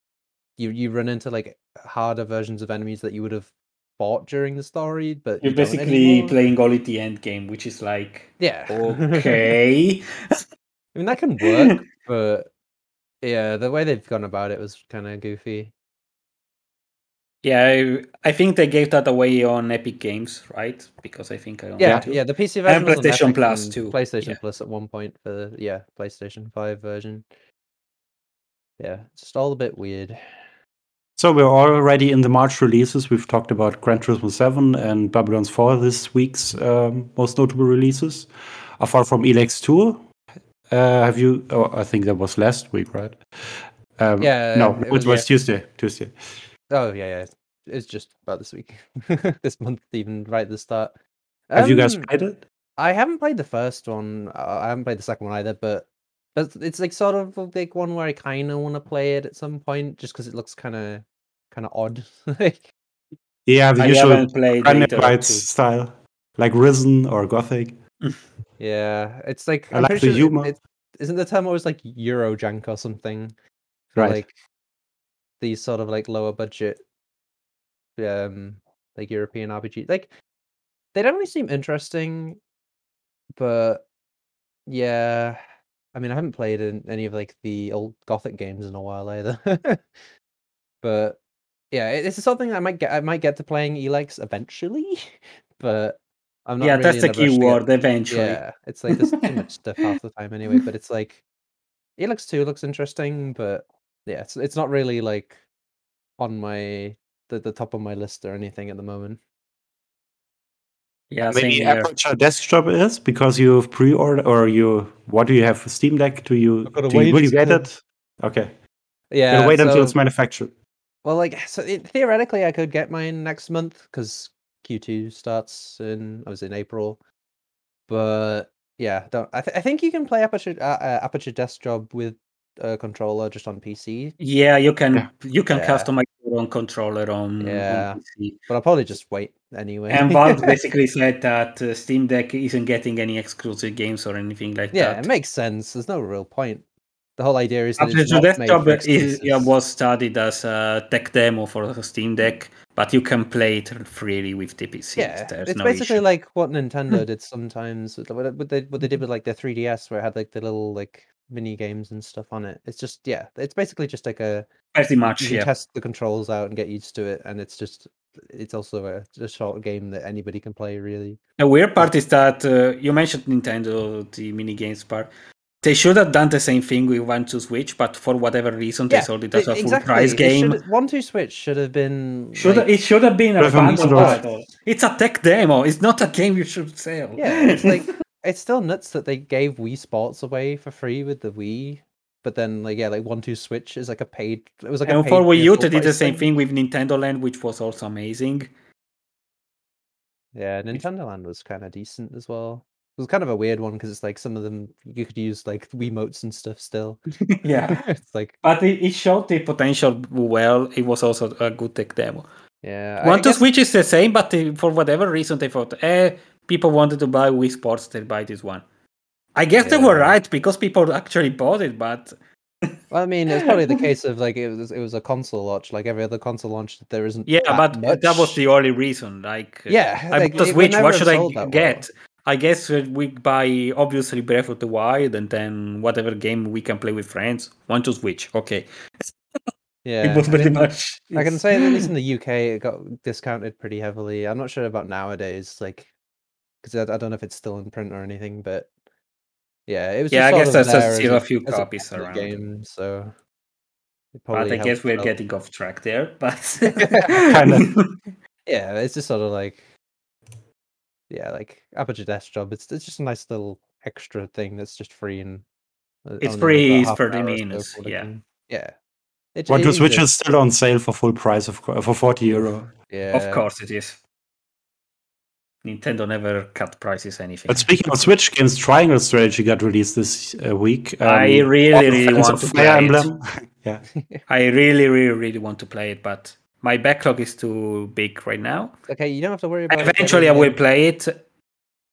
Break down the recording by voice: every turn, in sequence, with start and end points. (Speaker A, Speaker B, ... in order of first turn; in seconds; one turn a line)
Speaker A: 0.6-6.3
Speaker B: 5.4-10.4
Speaker A: 8.4-9.5
Speaker A: 10.9-12.5
Speaker A: 13.2-15.7
Speaker B: 17.4-24.4
Speaker A: 21.8-27.3
Speaker C: 21.8-22.1
Speaker A: 28.8-30.2
Speaker C: 31.2-40.1
Speaker C: 40.7-46.2
Speaker A: 44.2-45.3
Speaker A: 46.7-51.0
Speaker A: 51.5-52.1
Speaker C: 51.6-52.4
Speaker A: 52.8-62.7
Speaker C: 63.5-67.8
Speaker B: 63.8-65.5
Speaker A: 68.6-73.3
Speaker C: 69.7-70.5
Speaker A: 73.9-74.4
Speaker C: 74.0-74.2
Speaker A: 75.4-76.8
Speaker A: 78.0-80.1
Speaker A: 80.9-82.4
Speaker A: 83.4-83.8
Speaker A: 84.7-85.4
Speaker A: 85.9-89.9
Speaker A: 90.8-91.2
Speaker A: 91.7-101.2
Speaker B: 96.6-99.4
Speaker A: 102.0-105.4
Speaker A: 106.2-109.2
Speaker B: 111.1-111.9
Speaker C: 111.3-118.6
Speaker A: 116.7-117.7
Speaker A: 119.1-120.0
Speaker C: 119.3-120.5
Speaker A: 121.0-127.0
Speaker A: 127.9-134.2
Speaker B: 134.2-138.4
Speaker A: 135.5-135.9
Speaker A: 137.4-140.6
Speaker B: 139.9-145.1
Speaker A: 144.7-146.7
Speaker A: 147.2-149.5
Speaker B: 147.8-156.0
Speaker A: 155.0-164.5
Speaker B: 164.7-165.5
Speaker A: 165.2-171.2
Speaker B: 171.4-175.1
Speaker B: 175.6-180.6
Speaker A: 178.9-182.7
Speaker B: 182.4-187.8
Speaker C: 183.4-184.2
Speaker A: 183.6-184.3
Speaker A: 187.2-196.3
Speaker B: 194.9-198.5
Speaker A: 200.3-207.0
Speaker B: 207.4-207.8
Speaker A: 207.7-208.4
Speaker B: 208.4-212.3
Speaker A: 212.6-213.4
Speaker B: 213.0-218.6
Speaker B: 219.3-222.1
Speaker A: 219.6-220.2
Speaker A: 222.9-228.4
Speaker B: 227.3-239.1
Speaker A: 229.7-231.9
Speaker A: 239.8-245.9
Speaker B: 240.0-241.8
Speaker A: 246.6-248.7
Speaker A: 249.7-253.2
Speaker B: 250.1-252.4
Speaker A: 254.1-255.1
Speaker B: 254.3-257.9
Speaker A: 256.8-257.3
Speaker C: 257.3-257.7
Speaker A: 258.5-259.7
Speaker A: 261.1-265.4
Speaker A: 266.1-268.8
Speaker B: 266.2-268.1
Speaker A: 269.4-270.1
Speaker C: 269.5-272.7
Speaker A: 272.3-273.4
Speaker B: 273.1-274.0
Speaker B: 275.6-277.7
Speaker C: 277.5-283.8
Speaker B: 281.0-283.1
Speaker B: 284.3-288.8
Speaker A: 288.9-290.6
Speaker B: 289.7-291.2